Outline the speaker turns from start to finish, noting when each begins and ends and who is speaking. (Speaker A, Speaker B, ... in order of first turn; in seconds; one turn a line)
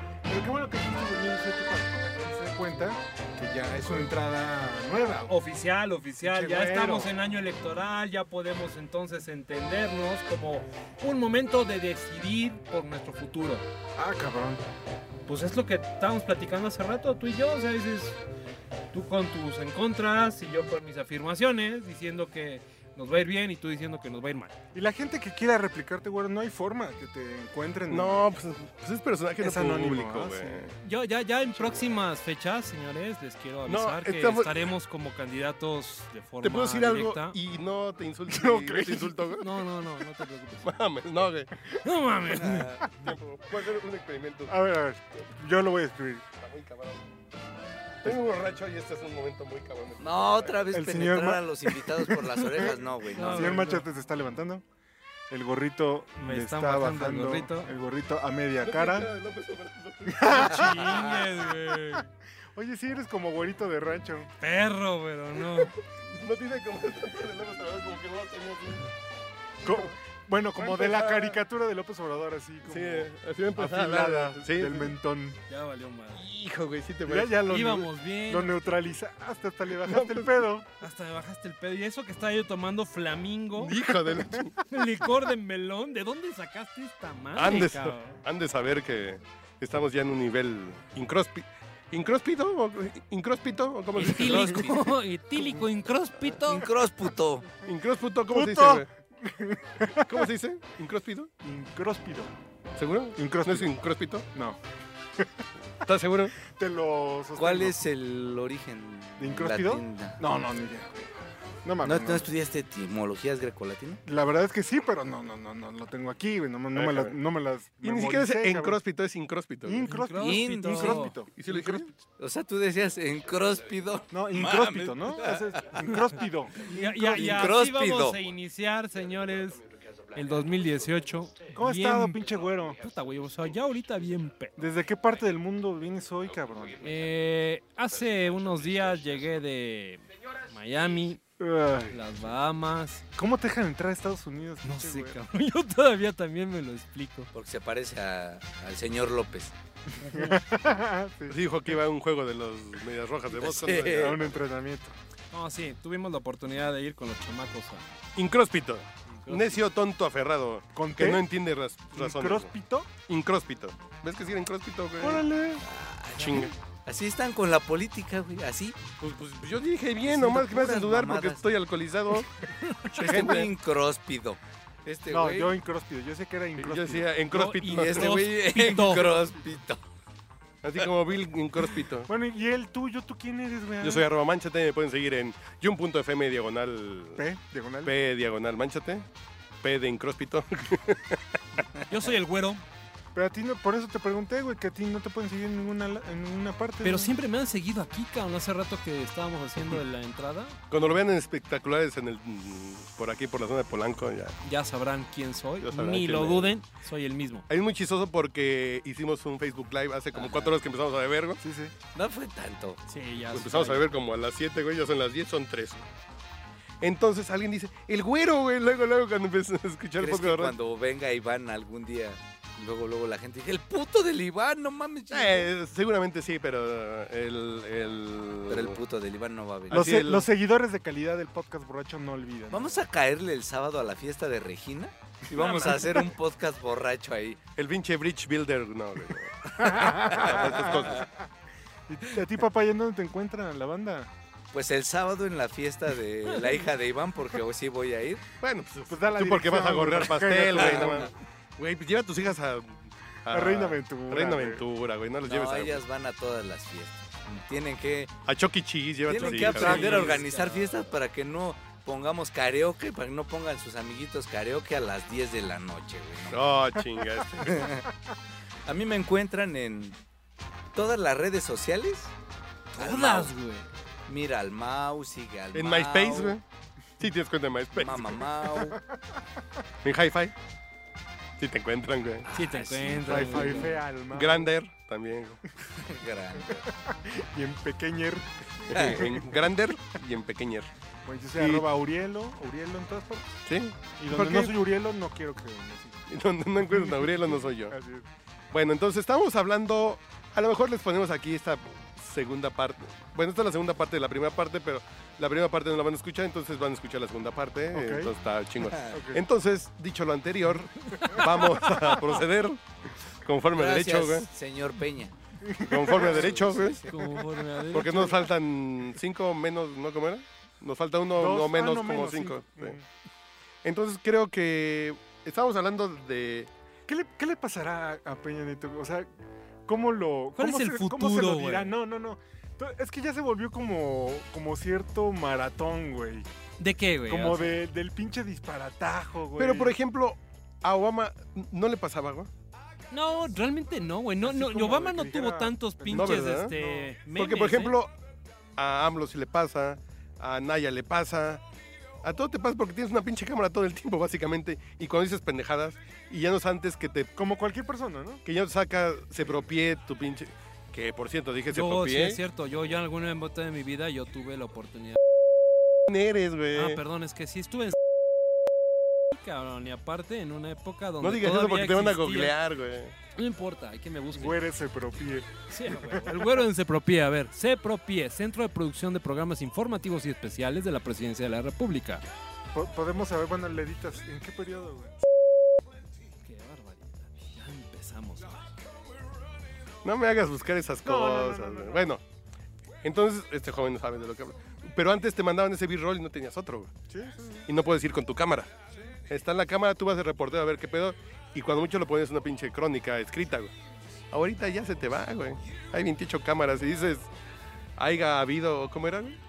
Speaker A: 0.3-5.3
Speaker B: 5.3-13.7
Speaker A: 6.2-7.1
Speaker A: 14.0-14.6
Speaker B: 15.3-18.2
Speaker B: 18.9-24.6
Speaker A: 24.7-28.3
Speaker C: 27.9-30.7
Speaker A: 29.4-30.7
Speaker B: 30.8-37.4
Speaker C: 33.7-34.7
Speaker C: 36.4-39.5
Speaker A: 38.3-39.4
Speaker B: 39.3-40.7
Speaker C: 40.6-41.5
Speaker B: 41.8-42.9
Speaker D: 42.3-42.9
Speaker C: 42.9-44.6
Speaker A: 44.5-46.3
Speaker C: 46.4-47.1
Speaker C: 48.0-50.7
Speaker D: 50.0-53.7
Speaker A: 50.7-54.6
Speaker B: 52.6-53.9
Speaker A: 55.3-59.1
Speaker B: 56.2-57.7
Speaker C: 58.6-60.5
Speaker A: 60.1-61.2
Speaker B: 60.3-62.1
Speaker D: 60.8-61.2
Speaker A: 62.5-64.3
Speaker B: 64.4-65.7
Speaker C: 65.4-68.9
Speaker A: 69.6-75.4
Speaker C: 69.7-69.9
Speaker C: 70.6-71.4
Speaker C: 72.7-75.0
Speaker B: 75.5-76.2
Speaker C: 76.1-77.4
Speaker A: 77.1-80.7
Speaker B: 77.5-78.5
Speaker C: 79.7-80.5
Speaker B: 80.8-83.8
Speaker C: 83.6-84.6
Speaker A: 84.1-84.5
Speaker B: 84.7-88.2
Speaker C: 87.3-94.6
Speaker B: 94.0-96.7
Speaker D: 94.0-95.0
Speaker D: 96.5-97.5
Speaker C: 97.6-98.9
Speaker A: 98.3-100.3
Speaker C: 100.0-101.3
Speaker A: 101.4-102.3
Speaker C: 102.8-104.3
Speaker A: 103.2-103.8
Speaker A: 104.3-104.6
Speaker A: 105.2-105.5
Speaker C: 105.8-106.3
Speaker A: 106.5-107.8
Speaker D: 107.4-110.2
Speaker A: 109.2-111.0
Speaker A: 111.6-112.3
Speaker D: 111.8-114.0
Speaker A: 114.1-118.8
Speaker C: 116.7-117.2
Speaker C: 117.8-119.9
Speaker A: 119.6-121.9
Speaker B: 119.9-121.2
Speaker D: 120.2-121.1
Speaker C: 121.3-121.9
Speaker D: 122.2-125.8
Speaker A: 124.1-127.5
Speaker B: 126.5-132.2
Speaker D: 127.2-128.2
Speaker A: 131.6-132.8
Speaker B: 132.8-134.7
Speaker A: 134.6-136.8
Speaker B: 136.8-141.2
Speaker A: 141.4-142.0
Speaker B: 141.9-143.0
Speaker A: 143.2-145.2
Speaker B: 144.6-147.3
Speaker D: 147.3-149.5
Speaker A: 150.0-151.8
Speaker B: 150.0-150.4
Speaker C: 151.3-154.4
Speaker D: 153.3-154.2
Speaker A: 153.9-154.9
Speaker B: 155.3-157.8
Speaker C: 158.2-162.5
Speaker B: 159.3-159.6
Speaker A: 160.7-161.3
Speaker A: 161.9-162.9
Speaker C: 163.1-165.2
Speaker A: 165.0-165.6
Speaker D: 165.6-168.8
Speaker C: 166.2-166.5
Speaker C: 169.0-173.5
Speaker D: 170.1-171.4
Speaker D: 173.0-175.6
Speaker A: 175.1-177.1
Speaker C: 176.6-178.2
Speaker B: 177.3-179.2
Speaker D: 177.7-179.8
Speaker C: 180.6-182.1
Speaker A: 182.1-184.1
Speaker C: 183.8-187.3
Speaker A: 187.2-187.9
Speaker C: 187.8-189.1
Speaker C: 189.6-191.6
Speaker B: 191.9-192.6
Speaker A: 193.1-197.1
Speaker B: 196.8-200.6
Speaker C: 200.7-204.3
Speaker B: 204.4-207.4
Speaker C: 205.6-206.5
Speaker C: 207.5-211.4
Speaker D: 210.1-210.6
Speaker A: 211.4-211.8
Speaker D: 211.9-212.8
Speaker B: 212.9-213.9
Speaker C: 213.3-215.9
Speaker C: 216.8-220.6
Speaker D: 220.0-225.5
Speaker C: 225.1-228.8
Speaker D: 228.5-229.9
Speaker C: 229.7-230.3
Speaker A: 229.7-232.8
Speaker D: 232.5-237.4
Speaker C: 235.3-236.0
Speaker C: 237.6-241.1
Speaker A: 239.6-241.3
Speaker D: 240.3-240.8
Speaker A: 241.9-244.1
Speaker D: 244.5-248.2
Speaker C: 248.4-255.8
Speaker A: 248.9-251.1
Speaker D: 250.6-251.0
Speaker A: 253.3-254.6
Speaker D: 255.2-258.1
Speaker C: 258.3-260.3
Speaker D: 259.1-266.6
Speaker B: 259.1-260.9
Speaker C: 266.3-267.6
Speaker D: 267.4-267.9
Speaker D: 268.7-270.0
Speaker D: 270.8-272.1
Speaker B: 272.8-273.7
Speaker D: 272.8-273.3
Speaker D: 274.1-276.4
Speaker C: 275.5-276.4
Speaker C: 277.0-278.3
Speaker D: 277.8-278.8
Speaker A: 278.5-278.8
Speaker C: 279.8-280.3
Speaker C: 281.4-282.3
Speaker D: 282.2-283.5
Speaker B: 282.3-283.8
Speaker A: 283.1-284.5
Speaker C: 283.1-285.4
Speaker D: 285.8-286.6
Speaker A: 286.5-289.4
Speaker C: 288.7-290.7
Speaker D: 288.7-289.1
Speaker A: 291.0-293.4
Speaker C: 291.4-291.7
Speaker C: 293.5-294.6
Speaker A: 294.0-296.0
Speaker C: 296.1-297.8
Speaker A: 296.7-298.1
Speaker C: 298.5-314.3
Speaker A: 307.7-308.1
Speaker D: 308.7-309.0
Speaker A: 308.9-309.2
Speaker B: 310.9-312.0
Speaker D: 313.5-315.1
Speaker A: 315.4-317.2
Speaker C: 315.7-316.9
Speaker D: 315.8-316.9
Speaker B: 316.9-318.3
Speaker C: 317.7-322.8
Speaker A: 321.2-322.9
Speaker C: 323.6-326.5
Speaker A: 326.9-329.1
Speaker A: 329.7-336.3
Speaker B: 330.4-331.8
Speaker B: 336.6-337.6
Speaker A: 337.1-339.8
Speaker C: 339.4-342.3
Speaker B: 342.9-347.8
Speaker A: 344.2-346.9
Speaker C: 345.9-346.6
Speaker C: 347.1-347.9
Speaker C: 348.6-351.4
Speaker C: 352.0-357.1
Speaker A: 357.2-358.2
Speaker C: 358.2-362.2
Speaker B: 361.5-365.0
Speaker C: 365.9-366.8
Speaker B: 366.5-367.8
Speaker B: 369.1-372.4
Speaker C: 371.0-372.9
Speaker B: 373.1-374.4
Speaker A: 374.1-376.1
Speaker B: 375.5-382.0
Speaker A: 382.5-384.9
Speaker B: 386.2-388.5
Speaker C: 389.8-392.0
Speaker A: 390.8-391.8
Speaker C: 392.8-396.7
Speaker A: 396.9-397.4
Speaker C: 397.5-398.5
Speaker C: 399.1-403.5
Speaker C: 404.1-407.1
Speaker C: 407.8-409.2